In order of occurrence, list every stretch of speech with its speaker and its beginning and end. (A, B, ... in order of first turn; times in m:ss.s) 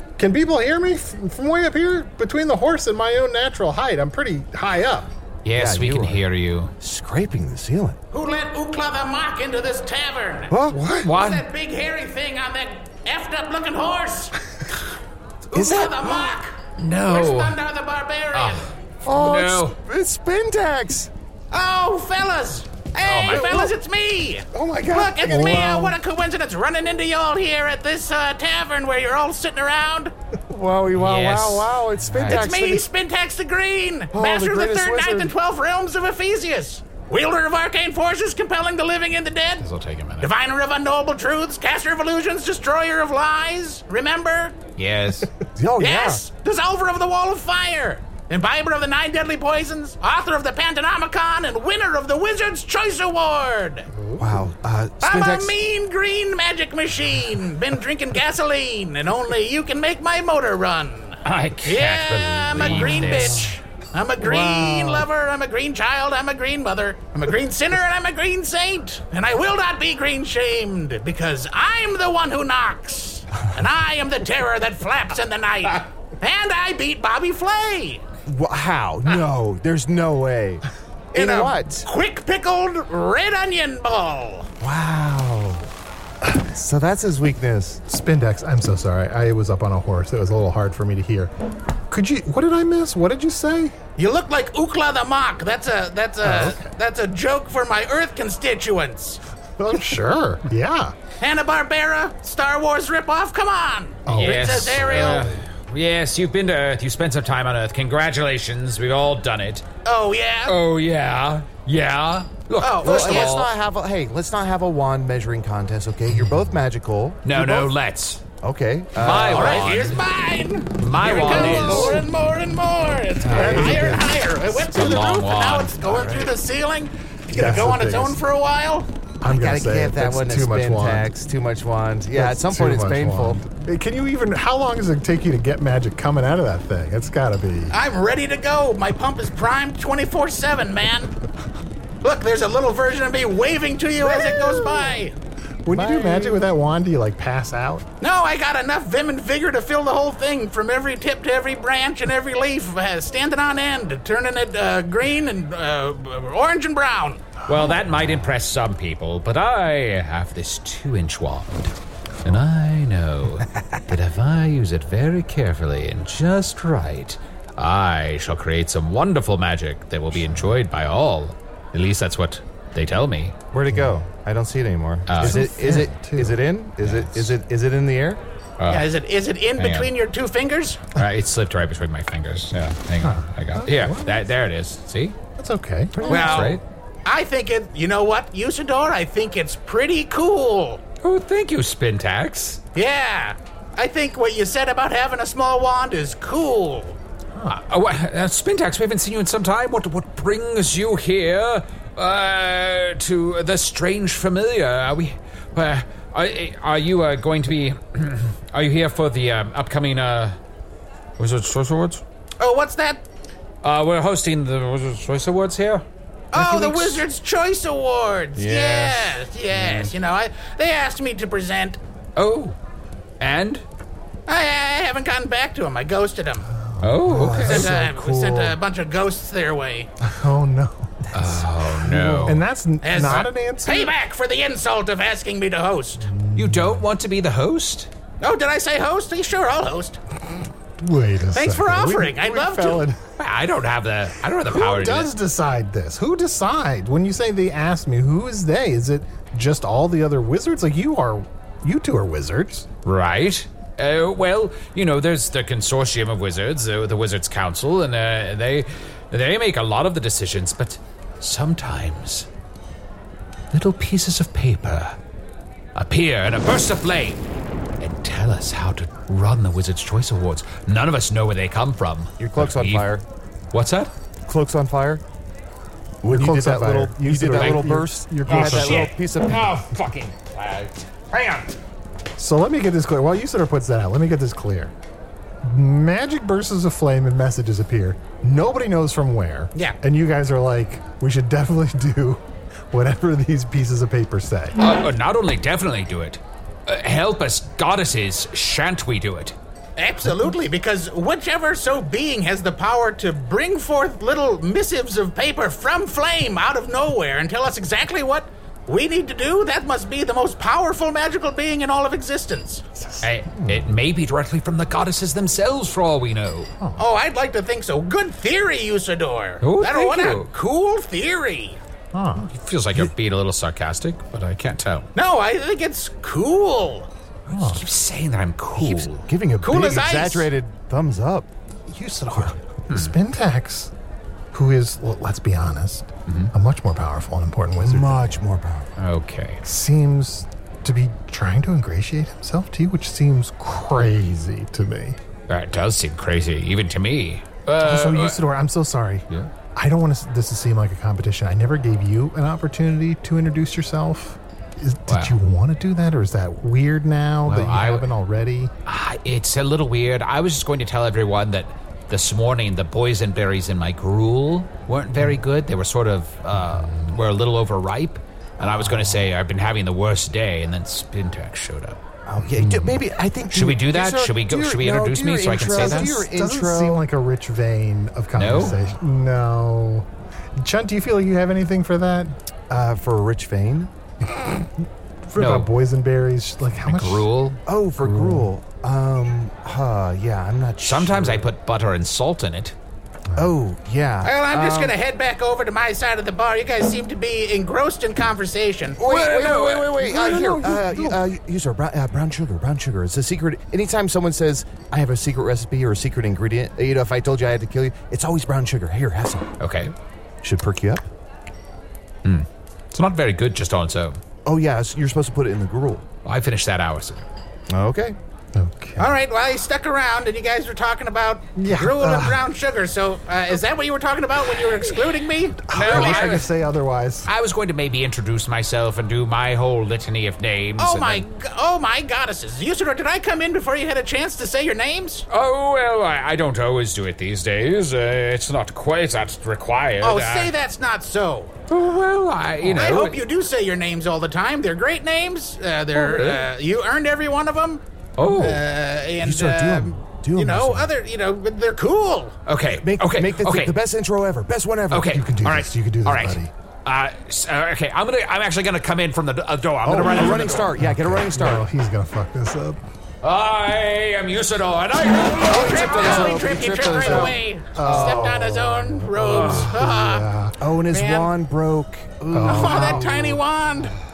0:00.2-0:05.1 A
0:05.4-0:06.7 B
0:05.5-0:06.2 C
0:06.8-0:08.0 C
0:08.1-0:10.5 D
0:10.5-0:10.8 C
0:10.7-0:11.1 A
0:10.9-0:11.5 B
0:11.1-0:14.4 D
0:15.5-0:16.6 D
0:15.6-0:16.3 C
0:16.8-0:17.6 B
0:17.1-0:18.7 D
0:18.3-0:19.8 B
0:19.0-0:21.1 C
0:21.5-0:30.1 D
0:23.0-0:23.5 B
0:23.3-0:23.7 C
0:24.5-0:25.9 C
0:25.3-0:25.9 A
0:30.5-0:32.9 C
0:31.0-0:32.5 B
0:32.2-0:39.6 D
0:34.1-0:35.3 C
0:39.6-0:40.3 B
0:40.2-0:44.6 D
0:44.8-0:45.3 B
0:45.6-0:46.2 C
0:45.8-0:53.9 D
0:53.9-0:54.5 A
0:54.2-0:55.5 C
0:55.0-1:18.0 D
1:01.2-1:03.4 B
1:02.6-1:03.5 A
1:04.2-1:05.1 C
1:18.3-1:21.9 C
1:21.2-1:24.5 D
1:24.6-1:25.7 C
1:26.4-1:27.8 C
1:27.9-1:31.3 A
1:31.9-1:33.8 A
1:34.0-1:39.2 D
1:36.2-1:36.7 A
1:39.6-1:40.9 A
1:41.2-1:45.3 D
1:44.1-1:45.4 A
1:44.1-1:49.6 B
1:49.8-1:50.6 D
1:50.5-1:53.5 B
1:52.6-1:53.4 D
1:52.8-1:57.7 C
1:56.2-1:56.6 A
1:57.2-1:58.2 B
1:58.4-1:59.8 C
1:59.0-2:00.0 B
1:59.0-2:08.9 D
2:00.8-2:02.0 B
2:01.1-2:02.0 C
2:03.2-2:04.2 A
2:03.3-2:03.9 C
2:04.6-2:06.0 B
2:07.3-2:08.2 A
2:07.4-2:07.8 C
2:09.2-2:11.1 A
2:09.3-2:13.4 C
2:12.1-2:17.8 A
2:17.7-2:21.1 D
2:22.0-2:25.2 D
2:24.4-2:24.6 A
2:25.6-2:27.9 A
2:25.7-2:26.4 C
2:28.0-2:37.3 D
2:37.5-2:41.7 B
2:37.5-2:38.2 A
2:42.2-2:53.4 B
2:50.2-2:50.5 A
2:53.5-2:58.2 C
2:53.7-2:54.0 A
2:55.1-2:55.4 B
2:55.2-2:56.4 A
2:56.8-2:57.3 B
2:58.6-2:58.9 B
2:58.7-3:00.8 D
2:59.6-2:59.9 B
3:01.0-3:05.2 B
3:03.0-3:04.2 A
3:05.4-3:06.6 A
3:06.0-3:06.6 C
3:06.0-3:06.6 B
3:07.0-3:10.8 D
3:11.0-3:12.6 B
3:12.8-3:17.0 D
3:17.4-3:30.4 B
3:31.2-3:32.0 B
3:32.4-3:33.0 D
3:33.6-3:35.8 B
3:36.3-3:41.8 D
3:36.6-3:37.0 B
3:38.5-3:38.8 C
3:39.6-3:39.9 C
3:42.2-3:42.6 B
3:43.2-3:43.6 B
3:44.3-3:46.5 D
3:46.6-3:47.6 A
3:46.8-3:47.7 B
3:47.0-3:48.6 C
3:47.4-3:49.9 D
3:50.0-3:53.9 A
3:51.1-3:52.5 B
3:52.8-3:56.0 D
3:56.0-3:56.9 A
3:56.4-3:57.9 B
3:58.2-4:00.0 D
4:00.8-4:03.0 A
4:01.3-4:02.8 D
4:03.2-4:05.1 B
4:04.4-4:12.7 A
4:12.8-4:22.3 B
4:23.5-4:25.0 B
4:25.8-4:27.2 B
4:27.8-4:32.9 B
4:32.2-4:33.0 C
4:33.5-4:33.9 B
4:34.3-4:35.0 C
4:36.0-4:39.6 C
4:36.1-4:38.9 A
4:37.3-4:37.6 B
4:38.3-4:41.5 B
4:42.2-4:44.7 A
4:45.4-4:54.6 A
4:54.6-4:59.4 B
4:59.8-5:12.6 D
5:00.0-5:00.3 A
5:12.8-5:13.7 A
5:13.0-5:16.5 B
5:16.8-5:21.6 D
5:19.4-5:20.3 B
5:21.9-5:22.3 A
5:22.2-5:24.9 B
5:25.0-5:26.9 D
5:27.3-5:27.6 A
5:27.3-5:29.1 B
5:28.6-5:31.3 C
5:29.4-5:30.3 D
5:31.7-5:33.7 A
5:32.7-5:32.9 B
5:34.3-5:38.2 A
5:36.1-5:36.3 B
5:37.6-5:38.7 C
5:38.8-5:39.4 B
5:39.4-5:45.0 A
5:45.3-5:48.2 B
5:47.6-5:58.5 A
5:54.9-5:55.2 B
5:57.3-5:57.9 B
5:58.7-6:11.8 B
6:06.3-6:07.0 A
6:08.4-6:09.1 A
6:12.1-6:16.8 C
6:12.3-6:12.8 A
6:13.3-6:16.0 B
6:15.4-6:22.1 A
6:18.2-6:18.6 B
6:22.5-6:23.7 C
6:24.1-6:27.1 A
6:25.2-6:25.5 B
6:26.6-6:27.4 B
6:27.5-6:31.3 C
6:27.8-6:28.3 A
6:30.6-6:32.6 B
6:33.2-6:34.7 C
6:34.0-6:38.8 D
6:38.8-6:49.3 C
6:38.8-6:40.2 B
6:39.8-6:41.1 A
6:49.4-6:49.7 B
6:50.2-6:50.8 C
6:52.0-6:54.0 B
6:54.2-6:55.8 C
6:56.0-6:57.1 B
6:57.5-6:58.0 C
6:58.4-6:59.0 A
6:58.8-7:06.2 D
7:01.4-7:02.2 A
7:05.5-7:07.1 A
7:05.5-7:06.3 B
7:07.1-7:11.0 B
7:10.6-7:15.1 D
7:15.1-7:20.3 B
7:19.8-7:21.4 D
7:21.5-7:23.0 B
7:22.4-7:32.2 D
7:25.8-7:26.3 B
7:28.0-7:28.4 B
7:29.0-7:30.7 C
7:32.3-7:33.6 B
7:32.5-7:35.0 C
7:34.7-7:40.5 B
7:34.8-7:36.3 A
7:39.6-7:41.5 C
7:40.6-7:42.6 A
7:43.0-7:46.3 B
7:45.3-7:47.2 C
7:45.3-7:50.1 D
7:46.8-7:47.1 B
7:47.0-7:50.4 A
7:47.7-7:48.0 B
7:49.1-7:49.5 B
7:50.4-7:53.2 C
7:50.7-7:51.1 D
7:52.1-7:52.9 A
7:52.2-7:53.7 D